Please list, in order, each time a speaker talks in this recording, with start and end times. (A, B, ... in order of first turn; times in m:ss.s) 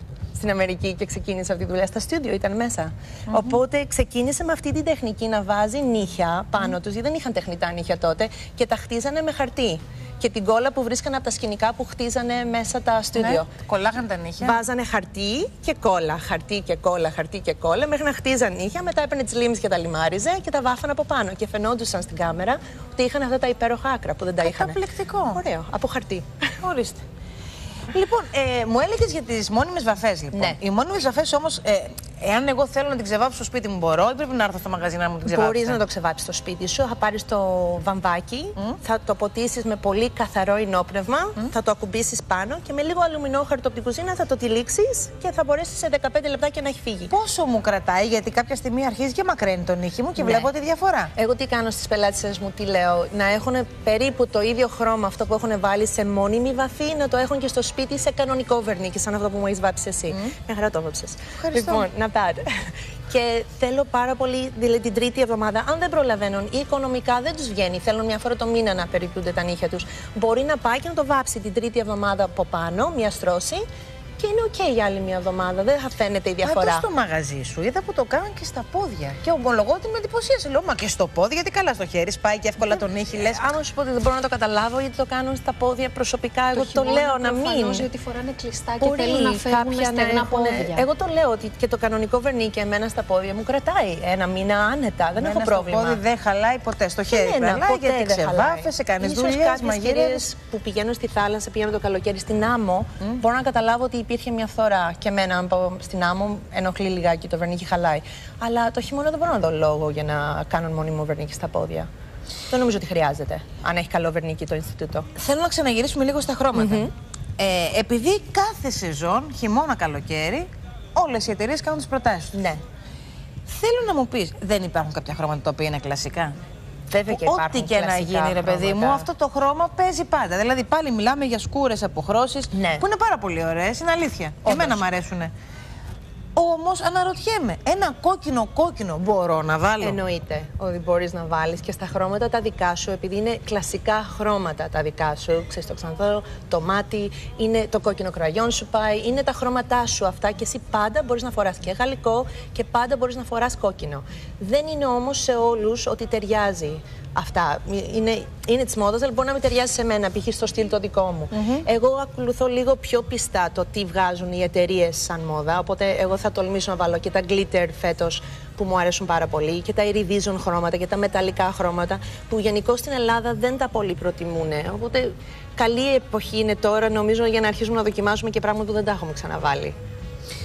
0:00.3-0:13.5 A
0:03.3-0:03.6 B
0:13.1-0:14.6 B
0:14.4-0:26.5 A
0:24.4-0:25.4 B
0:26.6-0:27.0 B
0:27.9-0:35.8 B
0:30.3-0:30.6 A
0:35.2-0:47.1 A
0:47.1-0:51.1 B
0:50.2-0:50.5 A
0:51.1-1:13.6 A
1:01.4-1:01.8 B
1:14.2-1:16.9 A
1:16.4-1:23.4 B
1:22.6-1:27.9 A
1:26.5-1:30.8 C
1:28.8-1:36.0 A
1:35.2-1:40.3 B
1:37.1-1:51.9 A
1:52.5-1:55.1 A
1:55.2-2:02.3 B
1:56.5-1:56.9 A
2:02.3-2:02.6 A
2:03.4-2:06.4 B
2:06.9-2:09.1 A
2:07.1-2:15.3 B
2:12.5-2:12.8 A
2:14.4-2:14.8 A
2:16.3-2:20.0 B
2:19.8-2:59.7 A
2:41.3-2:41.6 B